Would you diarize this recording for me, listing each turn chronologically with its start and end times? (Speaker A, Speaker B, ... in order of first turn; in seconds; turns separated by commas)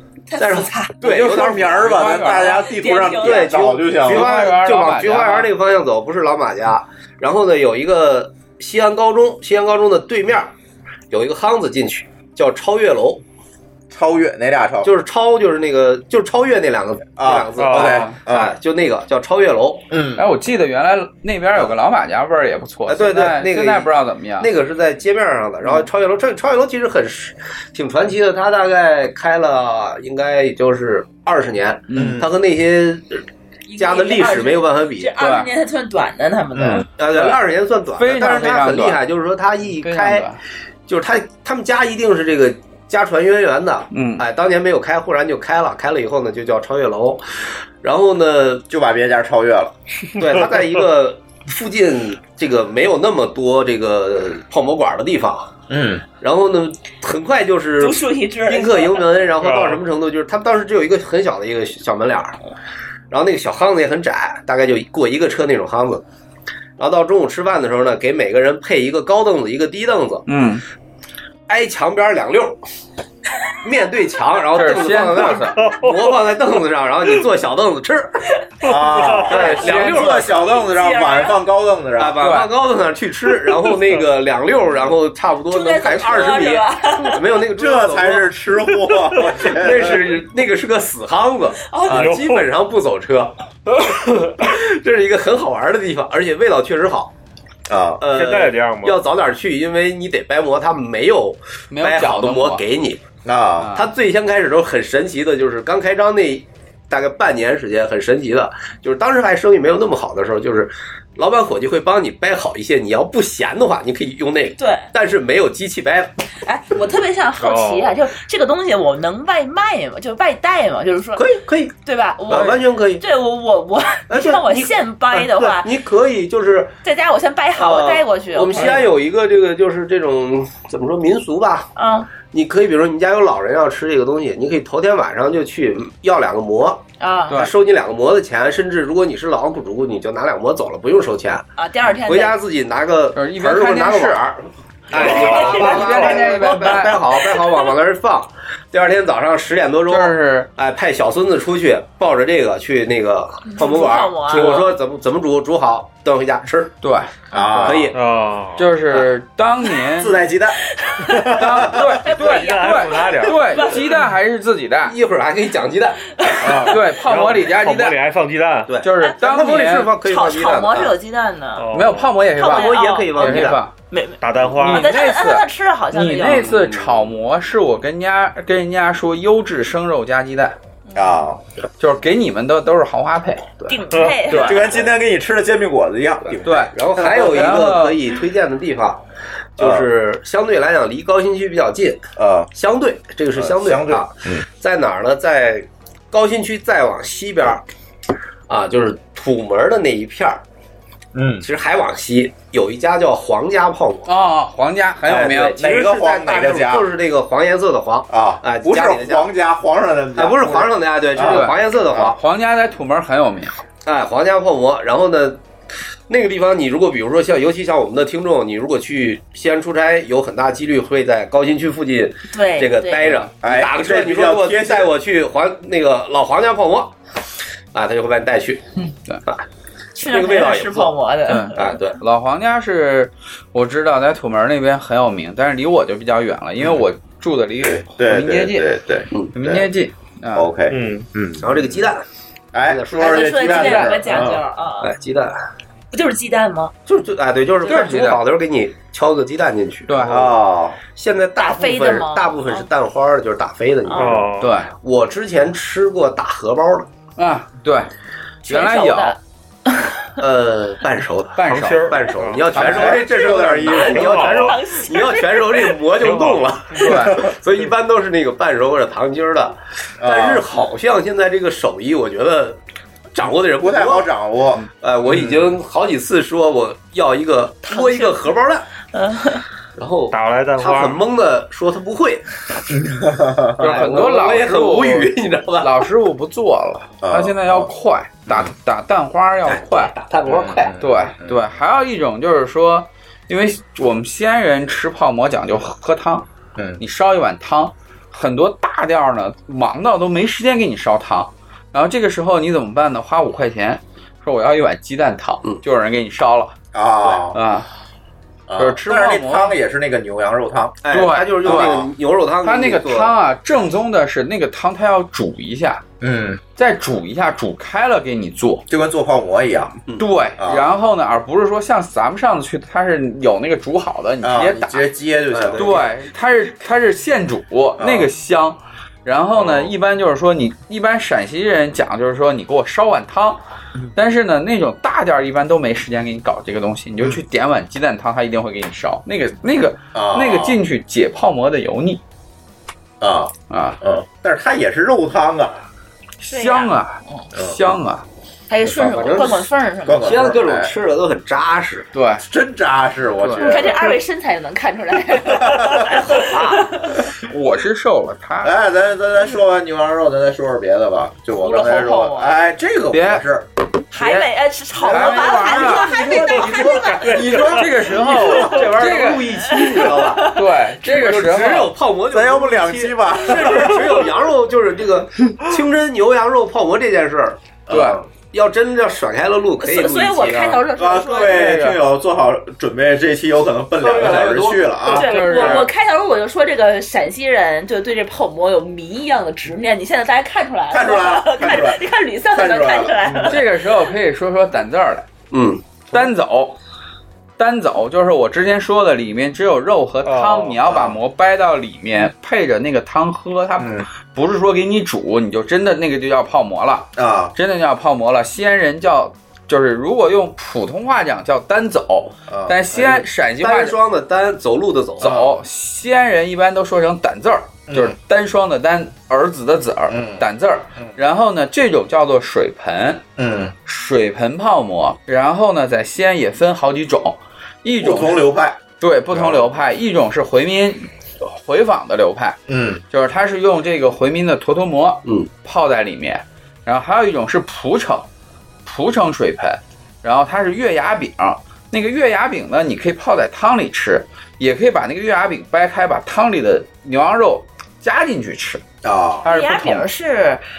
Speaker A: 0.3-1.0, Speaker B: 0.4-1.9, Speaker C: 1.0-4.3, Speaker D: 1.0-2.6, Speaker A: 2.1-3.6, Speaker B: 3.2-10.5, Speaker D: 4.0-5.5, Speaker B: 11.1-13.2, Speaker C: 13.9-14.9, Speaker B: 14.8-19.9, Speaker C: 17.2-18.5, Speaker E: 17.6-18.0, Speaker D: 17.8-18.1, Speaker C: 19.9-20.2, Speaker D: 20.1-24.5, Speaker B: 22.9-23.9, Speaker B: 24.4-33.2, Speaker D: 31.9-32.2, Speaker C: 31.9-32.3, Speaker A: 33.7-36.9, Speaker B: 33.8-35.1, Speaker D: 35.2-35.5, Speaker C: 36.5-36.9, Speaker B: 37.0-40.3, Speaker D: 37.1-37.4, Speaker D: 38.0-39.0, Speaker D: 39.8-40.4, Speaker B: 40.9-47.2, Speaker D: 43.9-44.2, Speaker B: 47.8-48.6, Speaker C: 48.7-49.7, Speaker B: 50.2-55.5, Speaker C: 55.7-56.0, Speaker B: 56.2-62.4, Speaker A: 57.8-59.2, Speaker E: 59.4-59.8, Speaker B: 63.1-66.0, Speaker B: 66.8-70.2, Speaker D: 70.3-70.6, Speaker B: 71.5-72.6, Speaker B: 73.6-78.2, Speaker D: 74.5-75.7, Speaker E: 75.6-76.1, Speaker C: 78.6-82.2, Speaker E: 78.6-79.3, Speaker D: 79.3-80.3, Speaker B: 79.3-80.3, Speaker A: 80.2-81.4, Speaker B: 82.0-88.3, Speaker D: 82.2-82.5, Speaker A: 85.5-87.2, Speaker C: 87.5-90.1, Speaker B: 89.2-97.1, Speaker A: 91.7-92.1, Speaker E: 91.9-92.5, Speaker C: 97.7-98.0, Speaker B: 98.0-103.0, Speaker E: 98.1-99.0, Speaker D: 101.7-102.6, Speaker C: 103.2-103.8, Speaker D: 103.6-103.9, Speaker B: 103.7-116.1, Speaker A: 114.6-114.9, Speaker A: 116.4-121.2, Speaker E: 117.4-118.0, Speaker B: 121.2-121.7, Speaker A: 121.8-125.7, Speaker B: 122.3-123.0, Speaker B: 124.1-126.7, Speaker A: 126.8-128.8, Speaker B: 127.5-131.7, Speaker A: 131.8-132.1, Speaker B: 132.3-141.4, Speaker A: 137.0-137.4, Speaker A: 141.6-142.4, Speaker B: 142.1-156.7, Speaker D: 143.1-144.2, Speaker E: 144.9-145.9, Speaker D: 144.9-147.0, Speaker A: 145.0-146.5, Speaker D: 149.9-150.5, Speaker A: 153.5-154.7, Speaker D: 156.8-157.8, Speaker C: 157.3-157.9, Speaker B: 157.6-158.0, Speaker E: 157.9-158.7, Speaker D: 158.6-160.2, Speaker C: 160.0-161.7, Speaker A: 160.8-164.0, Speaker D: 161.4-165.0, Speaker E: 162.0-163.9, Speaker B: 164.9-166.6, Speaker A: 166.2-166.6, Speaker C: 166.4-166.7, Speaker E: 166.5-168.8, Speaker D: 166.6-168.0, Speaker B: 168.7-170.9, Speaker D: 168.8-169.9, Speaker A: 170.0-171.7, Speaker E: 171.6-172.2, Speaker D: 171.7-173.7, Speaker B: 172.4-173.6, Speaker A: 172.4-176.5, Speaker E: 174.2-174.9, Speaker D: 174.5-180.6, Speaker B: 176.2-177.1, Speaker C: 180.9-181.4, Speaker D: 181.8-183.5, Speaker A: 183.7-184.7, Speaker E: 183.9-184.3, Speaker D: 184.3-184.7, Speaker C: 184.3-186.7, Speaker B: 186.3-189.0, Speaker D: 186.4-188.0, Speaker B: 189.6-197.6, Speaker C: 189.6-189.9, Speaker C: 192.2-192.5, Speaker C: 193.3-194.4, Speaker B: 198.5-200.4, Speaker C: 201.1-201.4, Speaker B: 201.4-204.1, Speaker D: 204.1-205.6, Speaker B: 205.1-209.3, Speaker C: 205.4-206.9, Speaker C: 208.1-212.0, Speaker B: 210.2-212.2, Speaker D: 211.2-213.6, Speaker B: 213.8-215.4, Speaker B: 216.1-226.9, Speaker A: 222.3-223.2, Speaker D: 223.0-223.3, Speaker C: 223.4-224.9, Speaker B: 227.7-228.6, Speaker A: 229.9-231.8, Speaker B: 230.1-230.9, Speaker D: 231.3-238.7, Speaker B: 231.6-232.0, Speaker C: 237.6-239.7, Speaker D: 239.3-240.5, Speaker C: 240.3-241.9, Speaker E: 240.7-241.1, Speaker B: 241.4-242.0, Speaker C: 242.5-244.4, Speaker B: 242.7-245.4, Speaker A: 243.0-244.9, Speaker A: 245.9-246.7, Speaker B: 246.9-250.4, Speaker D: 247.6-248.2, Speaker D: 249.9-250.2, Speaker C: 250.1-250.8, Speaker B: 250.9-256.9, Speaker A: 251.4-252.7, Speaker A: 253.9-254.3, Speaker E: 253.9-254.6, Speaker D: 254.4-254.7, Speaker D: 257.2-257.9, Speaker D: 258.4-259.2, Speaker A: 258.4-260.0, Speaker B: 260.2-272.6, Speaker D: 261.4-262.0, Speaker E: 261.4-262.7, Speaker D: 262.5-263.0, Speaker C: 262.5-264.2, Speaker A: 262.9-265.8, Speaker E: 263.6-264.6, Speaker E: 266.0-267.1, Speaker D: 266.8-267.2, Speaker C: 270.0-270.5, Speaker B: 273.1-274.1, Speaker C: 273.6-275.5, Speaker B: 274.8-278.7, Speaker A: 277.7-278.3, Speaker A: 278.9-279.4, Speaker B: 279.8-282.3, Speaker E: 280.1-281.0, Speaker C: 282.7-283.9, Speaker B: 283.6-285.9, Speaker D: 283.6-289.9, Speaker C: 287.0-287.7, Speaker B: 289.4-290.7, Speaker C: 290.3-291.4, Speaker D: 290.8-296.2, Speaker C: 296.6-296.8, Speaker D: 296.8-306.6, Speaker C: 306.7-307.4, Speaker D: 307.3-307.7, Speaker C: 308.5-310.8, Speaker D: 308.6-309.6, Speaker B: 310.8-313.1, Speaker D: 310.9-311.8, Speaker C: 311.4-311.9, Speaker D: 312.4-315.8, Speaker C: 316.0-316.4, Speaker D: 316.6-318.6, Speaker C: 318.7-319.8, Speaker D: 320.0-324.8, Speaker C: 320.4-320.7, Speaker C: 324.2-325.8, Speaker B: 325.3-325.9, Speaker D: 325.6-333.4, Speaker C: 327.8-328.1, Speaker D: 333.9-342.0, Speaker C: 339.9-340.6, Speaker C: 343.0-345.6, Speaker D: 343.5-343.8, Speaker D: 346.2-348.1, Speaker A: 346.2-347.2, Speaker A: 348.5-350.2, Speaker B: 348.6-349.5, Speaker C: 349.9-350.7, Speaker B: 350.0-351.9, Speaker D: 351.9-352.2, Speaker C: 352.2-353.8, Speaker D: 353.2-353.5, Speaker A: 353.4-357.0, Speaker C: 355.3-355.9, Speaker B: 356.1-356.7, Speaker D: 357.1-358.6, Speaker C: 358.4-363.5, Speaker A: 361.3-362.4, Speaker D: 362.9-363.3, Speaker A: 363.9-367.5, Speaker D: 363.9-364.3, Speaker C: 364.8-369.2, Speaker D: 364.9-366.2, Speaker E: 367.0-367.4, Speaker D: 367.1-371.7, Speaker B: 368.3-377.4, Speaker A: 369.3-370.4, Speaker C: 372.1-374.1, Speaker C: 377.7-378.0, Speaker D: 377.7-378.0, Speaker B: 378.2-380.6, Speaker A: 379.6-381.4, Speaker C: 380.7-385.6, Speaker D: 381.3-381.8, Speaker E: 383.9-384.4, Speaker D: 383.9-385.7, Speaker A: 384.8-393.4, Speaker C: 390.7-393.4, Speaker D: 393.3-395.1, Speaker B: 395.3-395.8, Speaker D: 395.9-396.6, Speaker D: 397.4-413.8, Speaker E: 400.1-400.6, Speaker C: 400.7-400.9, Speaker C: 403.6-403.9, Speaker C: 406.9-407.3, Speaker C: 412.3-412.7, Speaker B: 412.8-415.2, Speaker D: 415.0-423.0, Speaker C: 415.0-415.4, Speaker C: 417.7-417.9, Speaker C: 419.9-420.3, Speaker C: 423.2-423.6, Speaker D: 423.6-428.3, Speaker C: 427.8-429.5, Speaker D: 428.8-432.4, Speaker C: 432.5-432.8, Speaker D: 432.9-438.1, Speaker D: 438.6-448.6, Speaker C: 448.8-449.3, Speaker D: 449.2-449.9, Speaker A: 449.2-450.4